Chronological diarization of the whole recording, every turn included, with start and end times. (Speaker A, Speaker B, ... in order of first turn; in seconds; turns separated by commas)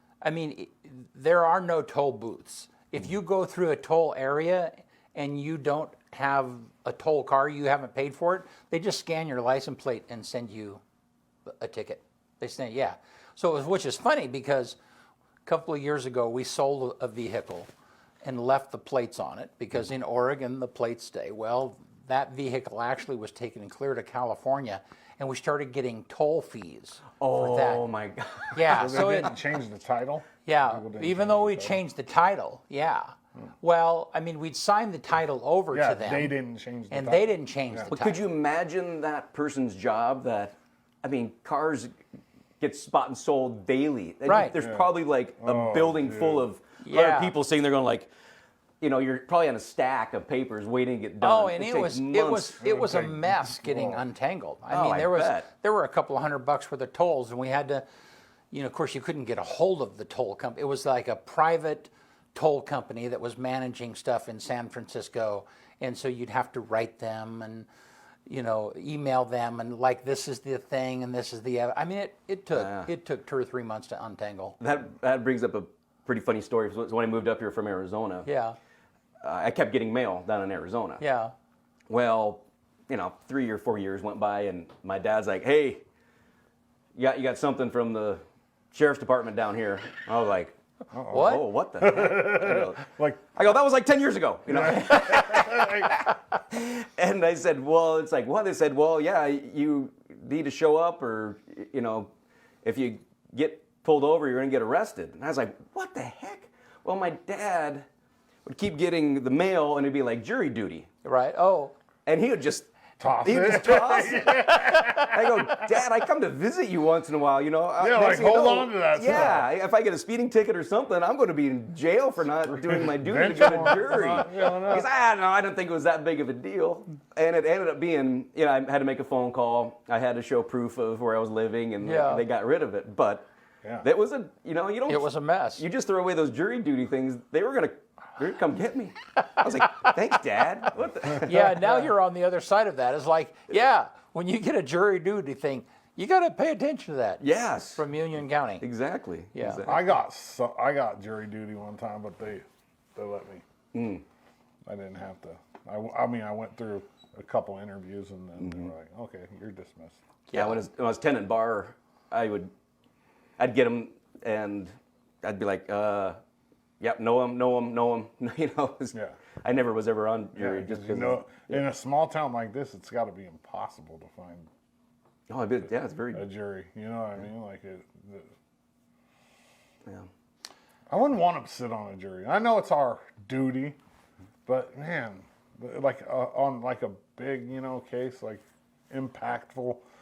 Speaker A: 0.2-10.8, Speaker A: 11.5-14.8, Speaker A: 15.4-17.7, Speaker A: 18.2-27.8, Speaker B: 27.2-29.3, Speaker A: 28.5-29.4, Speaker C: 28.8-31.8, Speaker A: 30.4-36.3, Speaker C: 35.7-37.9, Speaker A: 36.9-38.2, Speaker B: 37.9-41.9, Speaker B: 42.6-48.1, Speaker A: 44.2-44.6, Speaker C: 44.5-46.5, Speaker A: 46.8-47.3, Speaker B: 48.8-52.6, Speaker A: 51.2-57.8, Speaker C: 52.6-54.0, Speaker B: 54.7-55.5, Speaker A: 58.5-67.7, Speaker A: 68.3-74.5, Speaker B: 72.5-72.9, Speaker B: 74.6-78.3, Speaker A: 78.2-78.5, Speaker B: 79.2-81.0, Speaker A: 81.0-81.3, Speaker B: 81.9-85.8, Speaker B: 87.0-90.5, Speaker C: 90.9-93.2, Speaker A: 91.1-91.5, Speaker B: 91.1-92.8, Speaker B: 93.3-102.1, Speaker C: 94.5-95.9, Speaker B: 102.6-107.8, Speaker B: 108.4-110.9, Speaker A: 111.0-111.7, Speaker B: 112.0-112.7, Speaker C: 113.0-115.6, Speaker B: 113.2-114.5, Speaker A: 114.4-115.1, Speaker B: 115.0-133.2, Speaker C: 117.8-119.5, Speaker C: 122.5-124.9, Speaker A: 131.8-132.2, Speaker B: 133.8-141.9, Speaker A: 134.9-135.6, Speaker A: 141.2-147.2, Speaker B: 147.2-147.8, Speaker A: 147.8-148.6, Speaker B: 148.6-149.9, Speaker A: 149.3-149.7, Speaker C: 149.6-152.4, Speaker C: 152.9-153.4, Speaker B: 153.7-154.0, Speaker C: 154.7-160.0, Speaker B: 158.4-158.7, Speaker A: 160.3-160.6, Speaker B: 160.3-162.5, Speaker B: 163.4-166.2, Speaker B: 166.8-171.6, Speaker C: 170.3-174.5, Speaker B: 175.3-176.2, Speaker C: 176.1-178.3, Speaker C: 180.9-183.8, Speaker C: 184.4-189.8